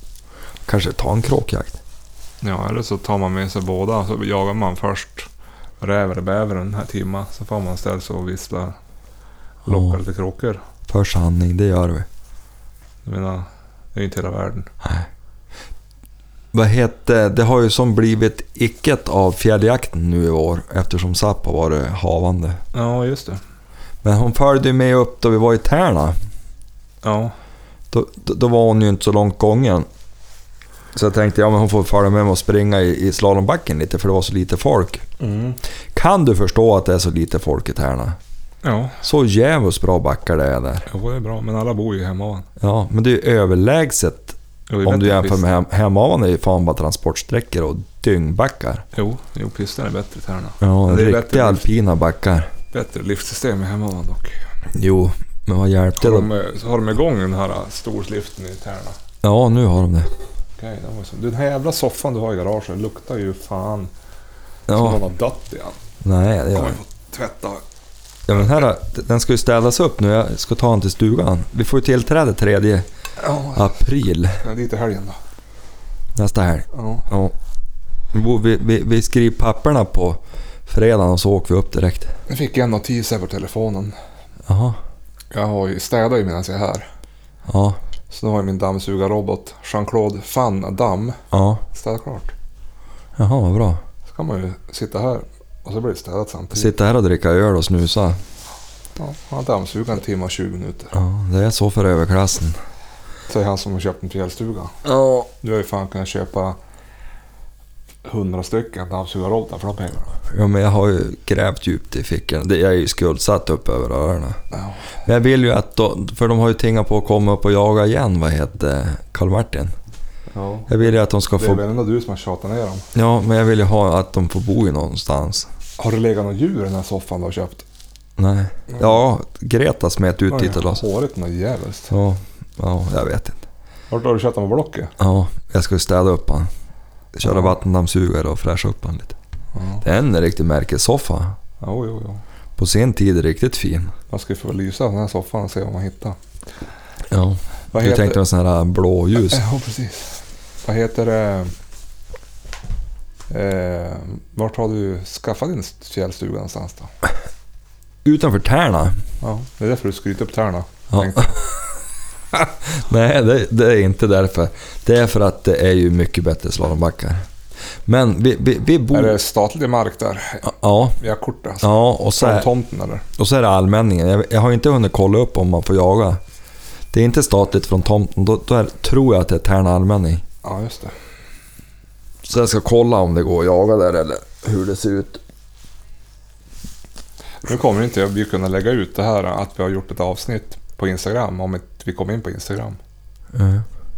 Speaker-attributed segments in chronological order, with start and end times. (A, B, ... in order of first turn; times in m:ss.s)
0:00.7-0:01.8 A
0:02.4-0:05.3 B
0:05.8-0:08.8 B
0:09.6-0:10.0 A
0:09.6-0:10.6 B
0:10.9-0:12.1 A
0:13.0-0:14.7 B
0:14.8-0:15.1 A
0:16.5-0:22.6 A
0:22.7-0:23.4 B
0:24.0-0:26.1 A
0:27.0-0:27.3 B
0:27.9-0:29.9 A
0:30.9-0:35.0 A
0:35.2-0:35.6 B
0:35.9-0:38.2 A
0:38.6-0:39.0 B
0:39.0-0:40.8 A
0:40.9-0:42.5 B
0:42.6-0:48.8 A
0:44.7-0:45.4 B
0:48.9-0:51.6 B
0:50.6-0:52.5 A
0:52.7-0:54.4 B
0:54.7-0:56.3 A
0:56.0-0:59.0 B
0:59.2-1:00.1 A
1:00.6-1:03.9 B
1:04.7-1:05.0 A
1:04.7-1:05.8 B
1:06.0-1:06.8 A
1:06.5-1:07.6 B
1:08.3-1:12.9 A
1:13.2-1:13.8 B
1:13.5-1:14.4 A
1:14.4-1:15.2 B
1:16.2-1:17.3 A
1:16.7-1:17.1 B
1:18.1-1:22.1 A
1:22.3-1:23.9 B
1:24.5-1:24.8 A
1:25.3-1:26.8 B
1:27.5-1:27.8 A
1:28.1-1:31.2 B
1:31.3-1:31.6 A
1:31.7-1:32.3 B
1:33.2-1:33.8 A
1:34.1-1:36.7 B
1:36.5-1:38.2 A
1:39.0-1:40.9 B
1:40.9-1:42.6 A
1:43.3-1:44.7 B
1:44.8-1:45.3 A
1:45.4-1:46.6 B
1:48.0-1:50.2 B
1:50.3-1:54.4 A
1:54.5-1:54.8 B
1:55.0-1:59.7 A
2:00.3-2:02.8 B
2:00.7-2:01.6 A
2:02.9-2:05.5 A
2:05.8-2:07.6 B
2:08.2-2:10.8 A
2:08.7-2:08.9 B
2:10.3-2:11.9 B
2:11.9-2:13.4 A
2:13.9-2:14.9 B
2:15.0-2:16.5 A
2:17.1-2:19.1 A
2:17.2-2:17.5 B
2:19.5-2:19.8 B
2:19.8-2:21.4 A
2:21.6-2:22.2 B
2:22.6-2:23.9 A
2:24.1-2:26.2 B
2:27.1-2:29.4 A
2:27.7-2:28.2 B
2:29.1-2:31.5 B
2:33.3-2:36.9 B
2:38.0-2:39.0 A
2:39.2-2:41.4 B
2:40.9-2:41.6 A
2:42.3-2:47.2 A
2:47.8-2:49.2 A
2:48.9-2:53.0 B
2:50.4-2:51.0 A
2:51.6-2:52.5 A
2:53.2-2:56.2 A
2:56.9-3:00.2 A
3:00.4-3:00.9 B
3:02.2-3:05.2 A
3:07.4-3:12.8 B
3:13.3-3:13.6 A